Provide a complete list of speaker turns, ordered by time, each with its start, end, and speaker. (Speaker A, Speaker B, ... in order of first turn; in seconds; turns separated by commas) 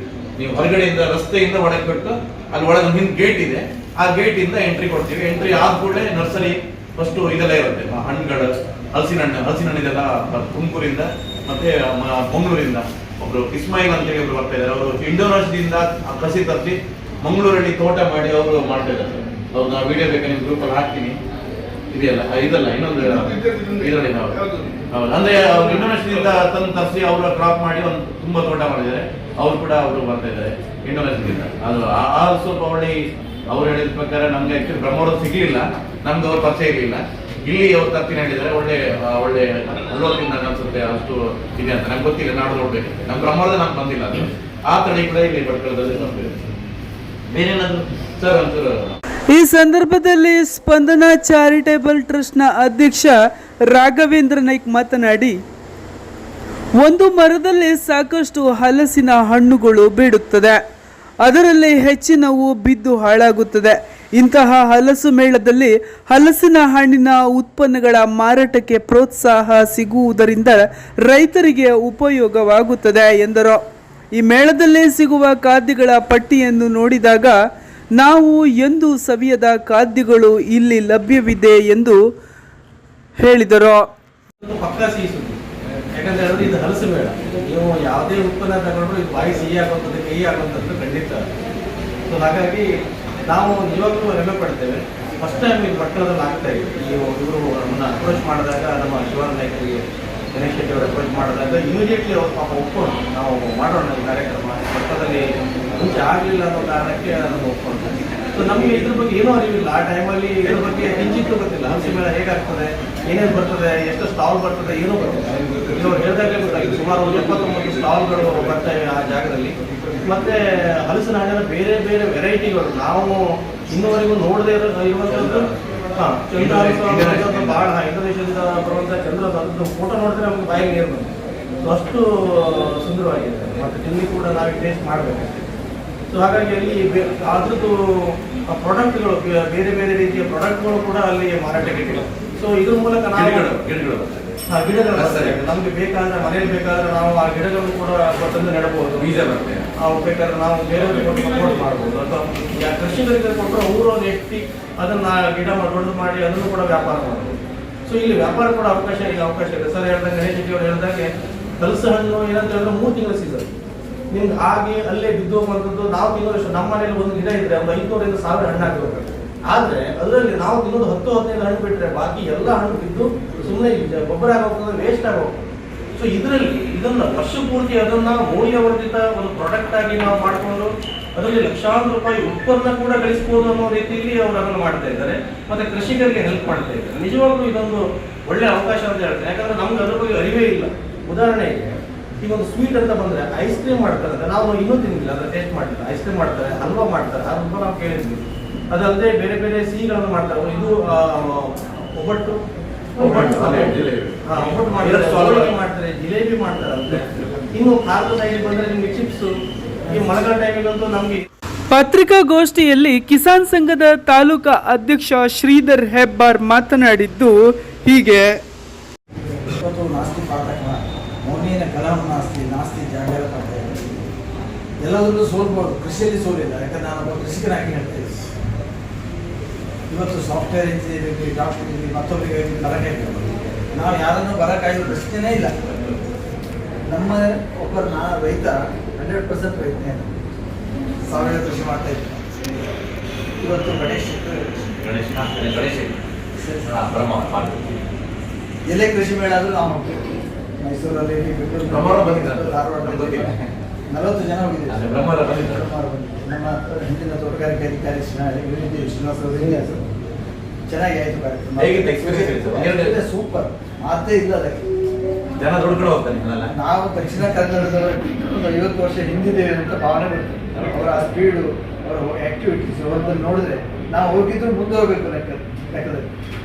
Speaker A: 0.4-21.2, Speaker A: 21.9-24.4, Speaker A: 24.9-46.5, Speaker A: 47.3-49.0, Speaker B: 49.3-53.2, Speaker B: 53.7-55.4, Speaker B: 56.8-60.6, Speaker B: 61.2-73.6, Speaker B: 74.2-77.4, Speaker B: 78.0-82.0, Speaker B: 83.2-83.8, Speaker C: 84.4-85.4, Speaker C: 86.0-91.1, Speaker C: 92.1-92.7, Speaker C: 93.3-94.6, Speaker A: 94.5-95.3, Speaker C: 95.3-99.8, Speaker A: 96.1-98.8, Speaker C: 100.3-105.2, Speaker A: 100.9-101.2, Speaker A: 102.1-103.0, Speaker A: 104.5-104.9, Speaker C: 105.8-107.8, Speaker C: 108.4-131.1, Speaker A: 110.5-110.9, Speaker A: 125.1-127.7, Speaker C: 131.6-135.4, Speaker C: 136.1-143.3, Speaker A: 143.1-144.4, Speaker C: 144.5-149.1, Speaker A: 144.9-145.5, Speaker A: 149.0-149.7, Speaker C: 149.8-163.5, Speaker C: 164.1-202.4, Speaker A: 203.0-204.2, Speaker C: 203.0-209.3, Speaker A: 204.8-205.5, Speaker C: 209.9-211.2, Speaker B: 211.7-218.4, Speaker D: 219.4-223.8, Speaker D: 224.8-228.3, Speaker D: 229.9-235.7, Speaker D: 236.9-240.1, Speaker D: 241.1-242.2, Speaker D: 243.4-244.5, Speaker A: 244.8-246.0, Speaker D: 246.4-246.8, Speaker A: 246.7-247.8, Speaker D: 248.7-253.3, Speaker A: 251.7-253.5, Speaker D: 253.9-259.9, Speaker A: 254.7-255.7, Speaker D: 260.7-264.6, Speaker A: 261.6-263.0, Speaker A: 265.4-266.5, Speaker D: 266.5-276.1, Speaker A: 270.6-270.9